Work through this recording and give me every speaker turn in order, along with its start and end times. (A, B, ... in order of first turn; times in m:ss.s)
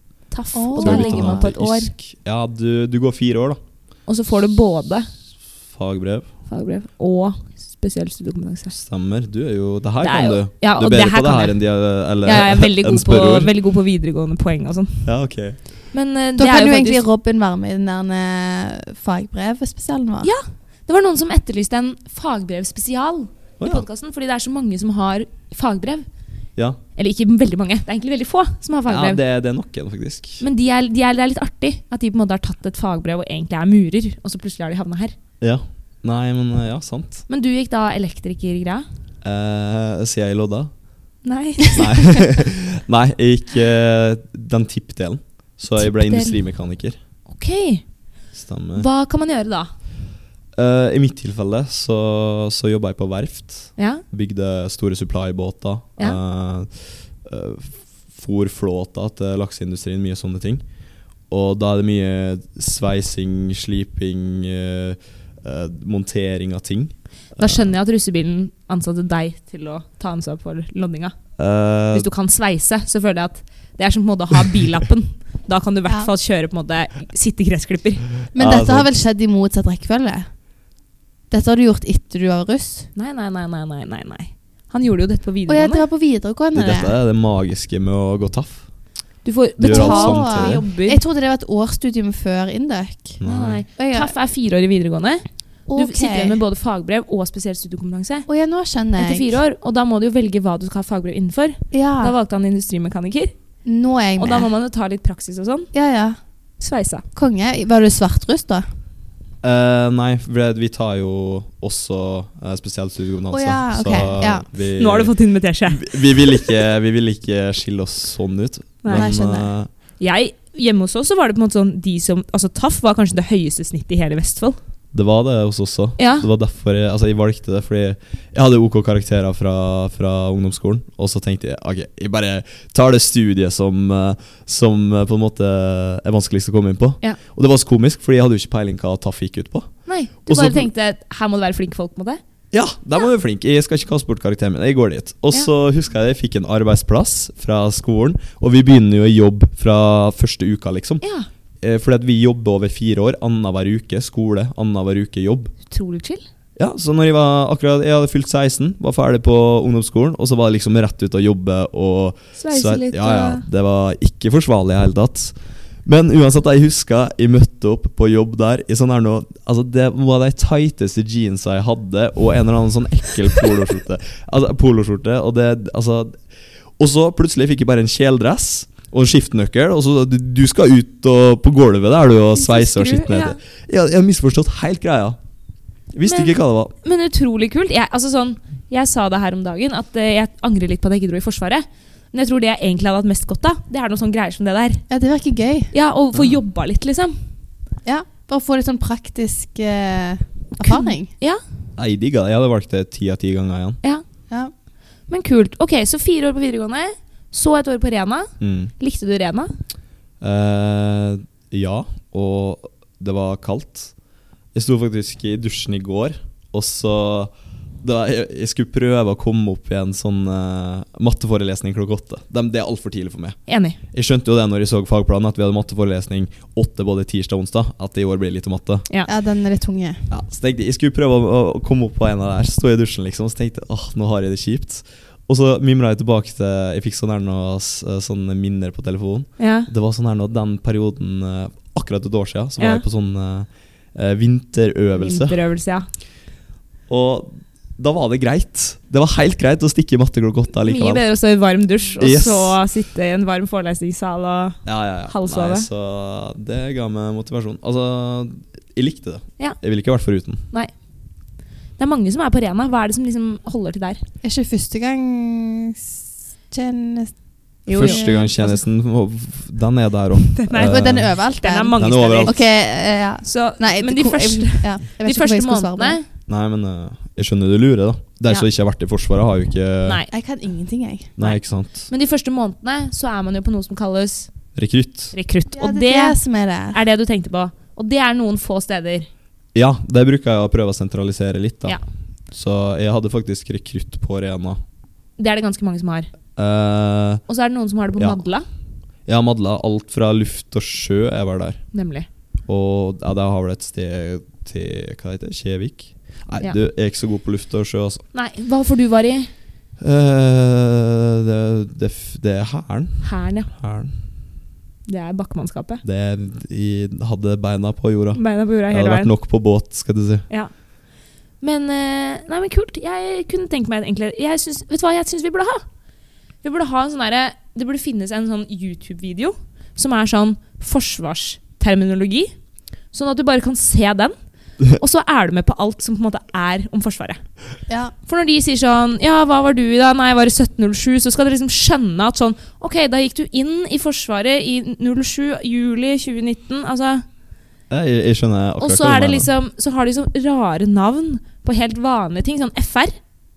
0:00.3-0:01.9 A
0:00.5-0:01.5 B
0:00.8-0:03.6 C
0:04.1-0:05.1 A
0:05.7-0:06.3 C
0:06.5-0:08.7 A
0:08.7-0:13.5 C
0:10.0-0:11.6 A
0:12.2-0:15.0 A
0:15.0-0:15.6 C
0:15.9-0:17.0 A
0:16.4-0:20.3 B
0:20.2-0:26.0 A
0:23.6-0:23.8 C
0:27.0-0:29.2 A
0:28.9-0:30.4 C
0:30.4-0:35.1 A
0:35.4-0:37.2 C
0:37.3-0:38.9 A
0:39.2-0:40.7 C
0:41.2-0:42.2 A
0:41.7-0:47.0 C
0:45.8-0:46.4 A
0:47.3-0:47.9 A
0:48.3-0:48.9 C
0:48.7-0:49.7 A
0:50.6-1:00.6 C
0:53.8-0:54.0 A
1:01.3-1:07.7 C
1:07.4-1:11.2 A
1:11.4-1:12.1 C
1:11.9-1:18.1 A
1:18.3-1:20.3 B
1:18.4-1:18.9 C
1:21.3-1:22.9 B
1:22.9-1:25.8 A
1:25.5-1:26.9 B
1:26.5-1:28.7 C
1:29.2-1:31.0 A
1:29.6-1:30.6 C
1:29.7-1:33.2 B
1:33.2-1:33.6 C
1:33.2-1:38.3 A
1:33.8-1:34.1 B
1:35.7-1:36.4 B
1:38.3-1:39.4 B
1:39.0-1:43.3 A
1:41.7-1:42.1 B
1:43.6-1:44.5 B
1:44.2-1:45.7 A
1:45.7-1:46.2 B
1:46.6-1:47.0 A
1:47.1-1:48.6 B
1:49.4-1:59.7 C
1:53.3-1:54.5 B
1:54.7-1:56.3 A
1:58.8-1:59.1 A
1:58.9-1:59.5 B
2:00.0-2:04.6 A
2:04.9-2:20.7 C
2:06.0-2:06.2 A
2:19.8-2:22.2 A
2:22.5-2:31.0 C
2:31.0-2:31.3 A
2:31.6-2:35.5 C
2:35.7-2:36.2 A
2:36.6-2:56.2 C
2:42.4-2:43.4 A
2:56.8-3:05.2 C
3:02.3-3:03.4 A
3:05.9-3:06.7 C
3:06.0-3:14.8 A
3:14.9-3:15.7 B
3:15.7-3:17.2 A
3:17.8-3:21.1 B
3:20.6-3:21.4 A
3:21.8-3:23.8 C
3:25.1-3:29.5 A
3:28.4-3:28.7 C
3:30.2-3:33.9 C
3:34.5-3:43.4 C
3:43.5-3:43.8 A
3:43.9-3:48.8 C
3:49.0-3:50.1 B
3:50.1-4:05.4 C
3:59.4-3:59.7 A
4:05.0-4:05.9 A
4:06.9-4:11.0 C
4:10.6-4:15.7 A
4:12.0-4:12.6 C
4:14.6-4:20.4 C
4:21.8-4:24.0 A
4:24.2-4:26.0 B
4:26.5-4:27.1 B
4:27.6-4:28.3 B
4:27.7-4:28.6 A
4:27.7-4:31.1 C
4:30.3-4:32.4 A
4:30.5-4:36.0 B
4:31.8-4:32.3 C
4:33.2-4:36.0 A
4:36.3-4:40.0 C
4:39.8-4:40.1 A
4:40.1-4:41.1 B
4:41.2-4:41.9 C
4:41.2-4:44.3 A
4:44.6-4:45.1 C
4:45.1-4:46.2 A
4:45.5-4:46.8 B
4:46.7-4:49.1 A
4:49.5-4:51.8 C
4:52.3-4:54.6 C
4:55.2-4:56.1 A
4:56.4-4:57.2 C
4:57.3-4:58.4 A
4:59.0-5:01.6 C
5:01.7-5:02.1 A
5:02.5-5:08.0 C
5:08.1-5:09.3 A
5:09.8-5:13.9 C
5:13.0-5:13.5 A
5:14.9-5:15.8 A
5:15.8-5:20.2 C
5:18.1-5:19.1 A
5:21.4-5:25.6 A
5:26.4-5:32.3 A
5:32.9-5:34.1 A
5:34.7-5:37.2 A
5:37.7-5:37.9 B
5:38.0-5:47.0 A
5:47.7-5:49.3 C
5:48.6-5:52.9 A